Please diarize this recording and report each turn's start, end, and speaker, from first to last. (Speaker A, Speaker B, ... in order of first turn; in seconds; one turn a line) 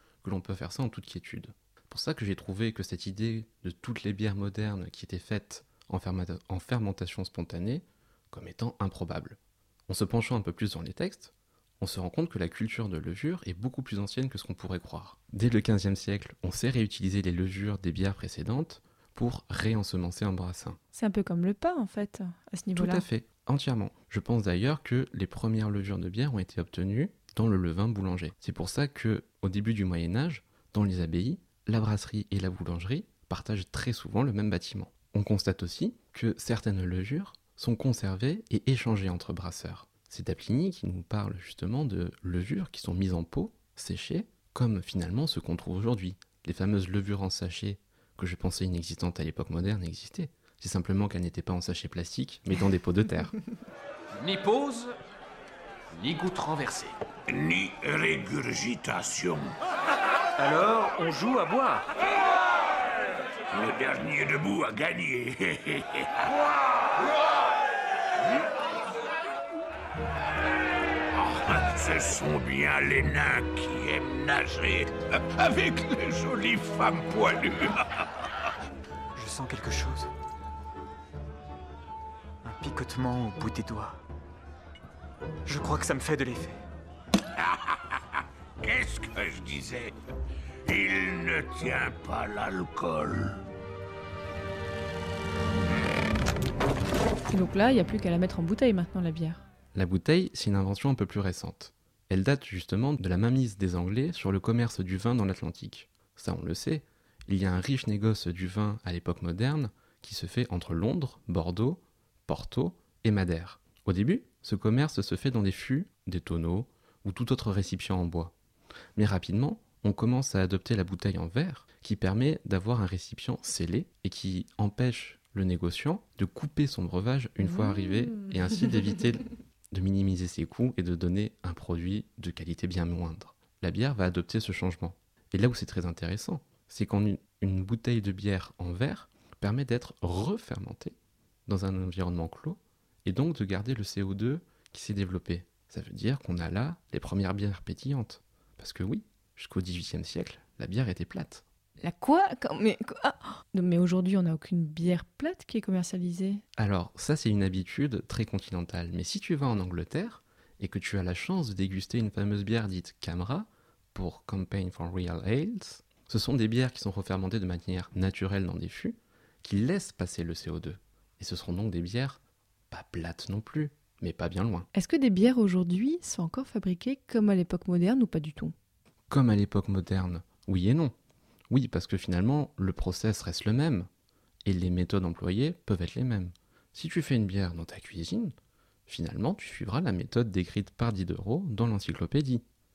Speaker A: 0.2-20.8
Speaker B: 20.9-23.1
Speaker A: 22.8-53.4
Speaker C: 54.2-54.9
Speaker C: 56.0-56.9
Speaker D: 57.3-59.5
Speaker C: 60.4-61.8
Speaker D: 63.5-66.3
Speaker D: 71.2-78.1
Speaker E: 79.2-80.1
Speaker E: 82.4-84.0
Speaker E: 85.5-86.6
Speaker D: 87.5-87.8
Speaker D: 88.6-89.9
Speaker D: 90.7-93.4
Speaker B: 97.3-99.4
Speaker A: 99.7-118.3
Speaker A: 119.0-151.4
Speaker B: 151.8-156.4
Speaker A: 156.6-174.7
Speaker B: 174.7-178.5
Speaker A: 179.1-180.9
Speaker A: 181.5-183.9
Speaker A: 184.4-188.3
Speaker A: 188.9-192.4